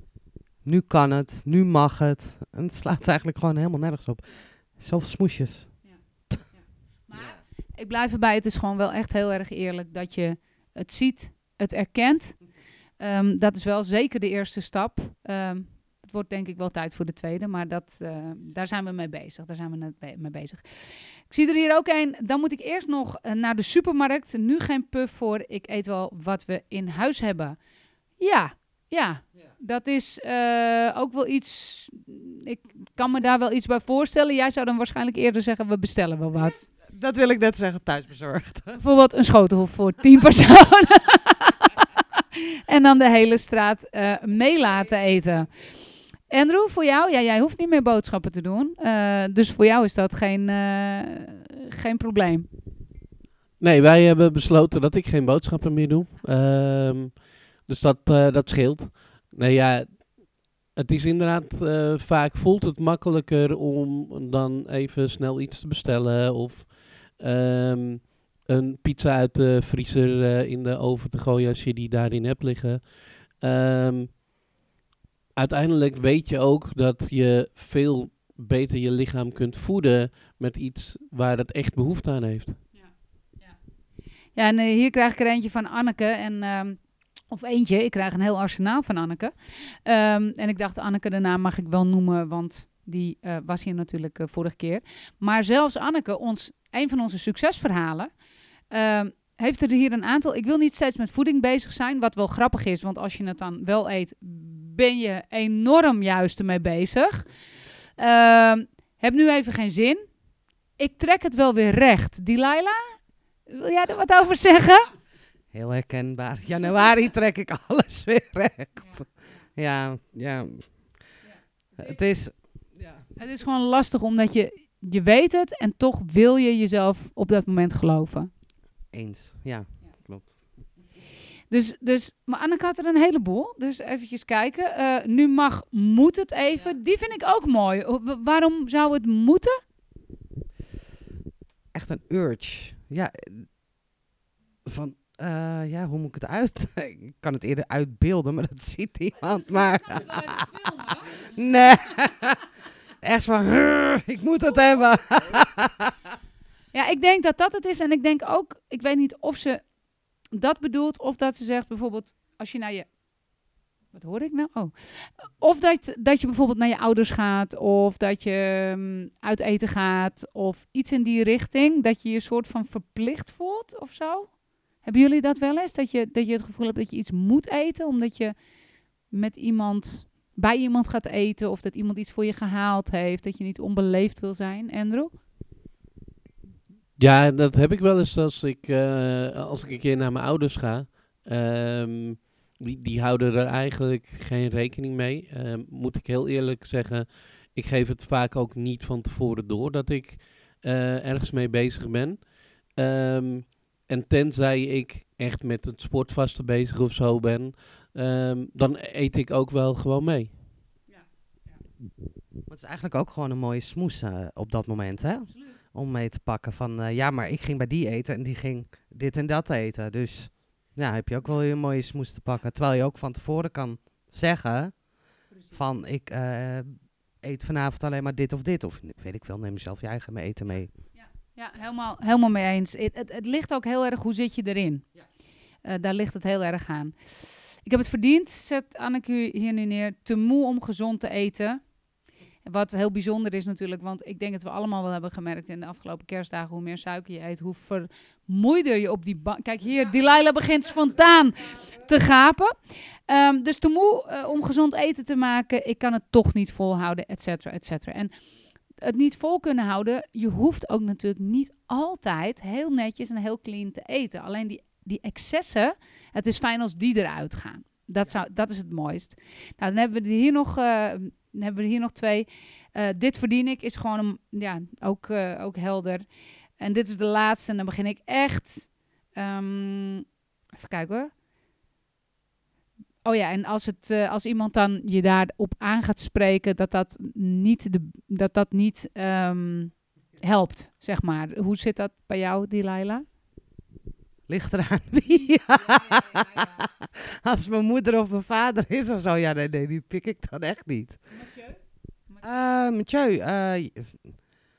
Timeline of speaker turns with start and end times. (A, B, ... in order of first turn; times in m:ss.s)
0:00.6-0:06.4 A
0:05.8-0:12.5 B
0:13.0-0:27.6 B
0:28.2-0:36.7 B
0:36.8-0:38.8 A
0:38.8-0:45.5 B
0:46.3-0:52.5 B
0:53.6-1:14.2 C
1:15.4-1:22.6 C
1:22.7-1:23.6 B
1:24.4-1:38.1 B
1:38.7-1:47.3 B
1:48.0-1:50.1 B
1:50.8-1:54.9 B
1:55.5-2:01.1 A
2:01.2-2:02.0 B
2:01.8-2:03.0 A
2:03.2-2:08.3 B
2:08.9-2:10.4 A
2:11.5-2:19.6 B
2:21.7-2:23.5 A
2:24.6-2:32.4 A
2:30.2-2:31.0 B
2:33.0-2:35.9 A
2:36.7-2:39.7 B
2:40.3-2:42.9 B
2:43.9-2:58.4 B
2:59.1-3:05.1 B
3:07.0-3:30.4 C
3:32.5-3:50.8 A
3:50.9-3:54.9 B
3:55.6-4:01.7 B
4:02.4-4:18.1 B
4:18.8-4:36.0 B
4:36.6-4:41.1 B
4:43.0-4:53.1 B
4:54.3-5:01.1 A
5:01.2-5:01.6 B
5:02.2-5:04.2 A